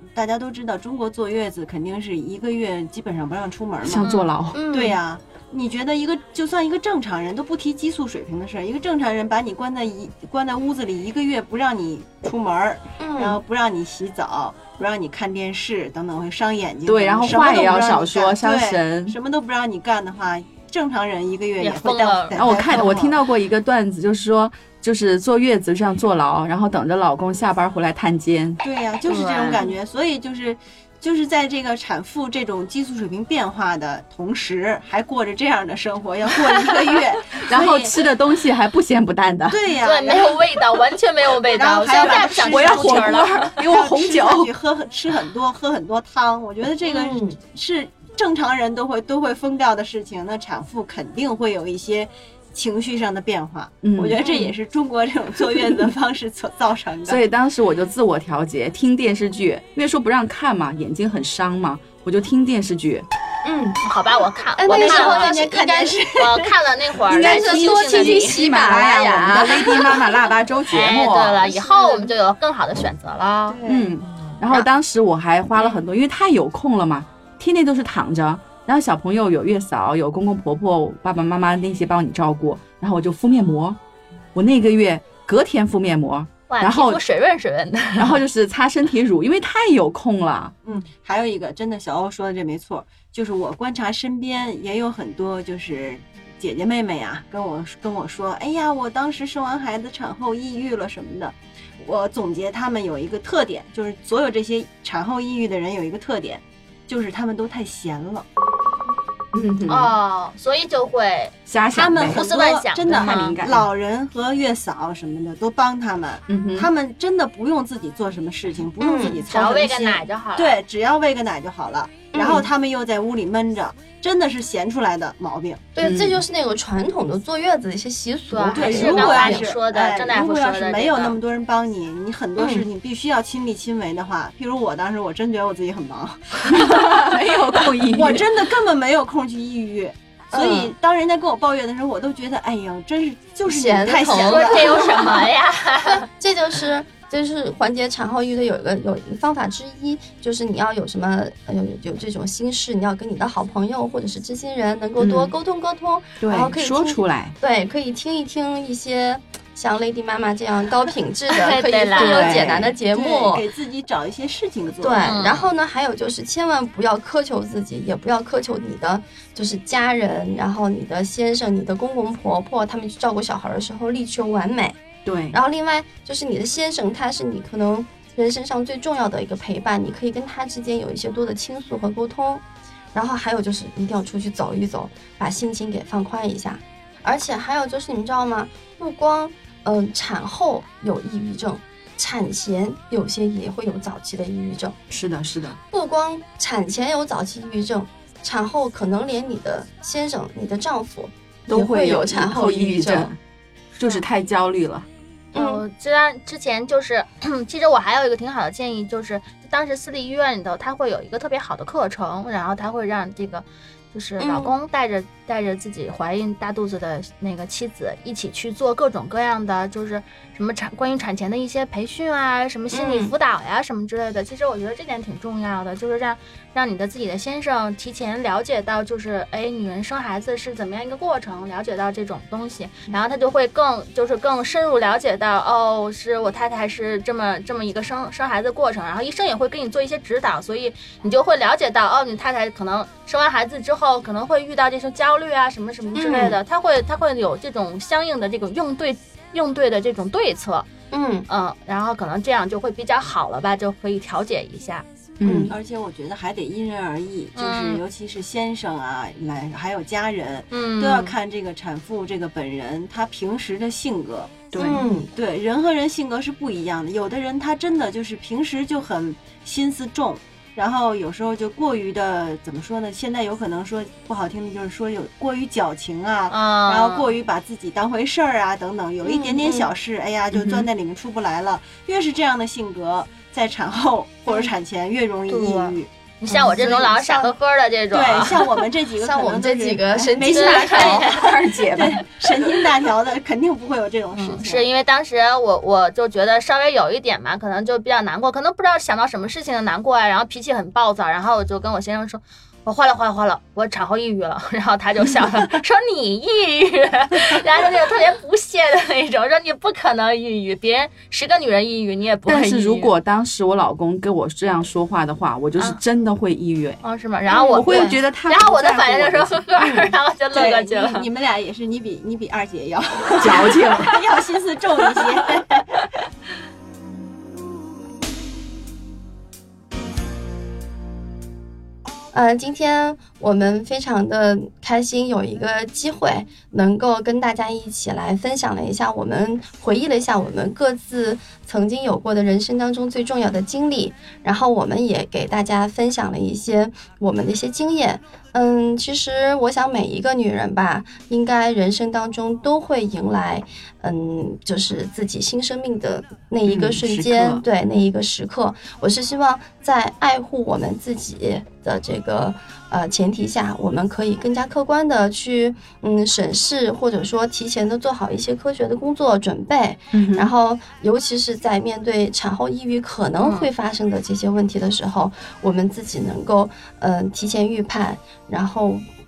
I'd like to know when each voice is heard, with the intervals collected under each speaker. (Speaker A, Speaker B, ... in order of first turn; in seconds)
Speaker A: 0.1-4.1, 4.7-23.2, 28.6-38.0, 39.5-40.7, 41.4-57.2, 64.6-66.5, 73.5-74.0, 90.7-108.3, 111.7-125.6, 128.5-137.2, 137.8-145.3, 162.0-165.1, 255.5-264.6, 265.1-285.9, 287.9-294.7, 320.3-325.7
Speaker B: 3.8-4.6, 16.9-19.2, 22.4-28.6, 37.5-39.6, 42.1-44.5, 53.8-54.2, 57.1-63.1, 67.1-71.5, 73.7-83.8, 84.3-87.0, 88.0-90.5, 109.3-109.9, 111.5-112.2, 112.9-113.7, 116.3-116.7, 125.8-126.2, 136.5-138.4, 155.0-155.3, 156.2-157.4, 175.1-175.4, 194.9-195.6, 201.5-203.2, 203.8-204.9, 255.2-255.5, 264.5-264.9, 280.3-280.7, 291.0-292.1, 312.3-319.4, 323.2-323.9, 356.4-357.4, 369.9-370.3
Speaker C: 4.0-4.3, 21.6-22.5, 29.1-29.6, 39.8-43.5, 63.8-65.4, 66.1-68.5, 70.7-73.6, 86.5-88.2, 109.7-111.3, 112.0-113.4, 119.3-120.6, 128.3-131.2, 144.1-146.1, 161.3-162.4, 165.0-165.5, 205.3-250.7, 251.3-254.8, 257.4-257.8, 260.5-261.1, 276.3-277.1, 285.3-288.4, 290.3-291.3, 294.1-312.9, 316.8-321.1, 323.3-323.9, 373.2-373.5
Speaker D: 4.5-5.0, 13.0-13.4, 46.9-47.4, 54.2-54.5, 63.4-63.8, 64.6-66.0, 67.1-70.1, 71.5-72.1, 118.8-119.2, 122.1-122.5, 125.8-129.5, 132.4-132.7, 140.3-140.7, 143.5-145.2, 146.0-163.4, 164.8-174.8, 175.3-194.8, 195.7-203.1, 205.3-205.6, 214.2-214.5, 222.7-223.1, 246.0-246.4, 250.9-251.3, 255.2-255.5, 264.6-265.1, 279.0-279.7, 286.3-287.3, 289.0-291.1, 317.6-318.0, 319.6-319.9, 332.1-378.8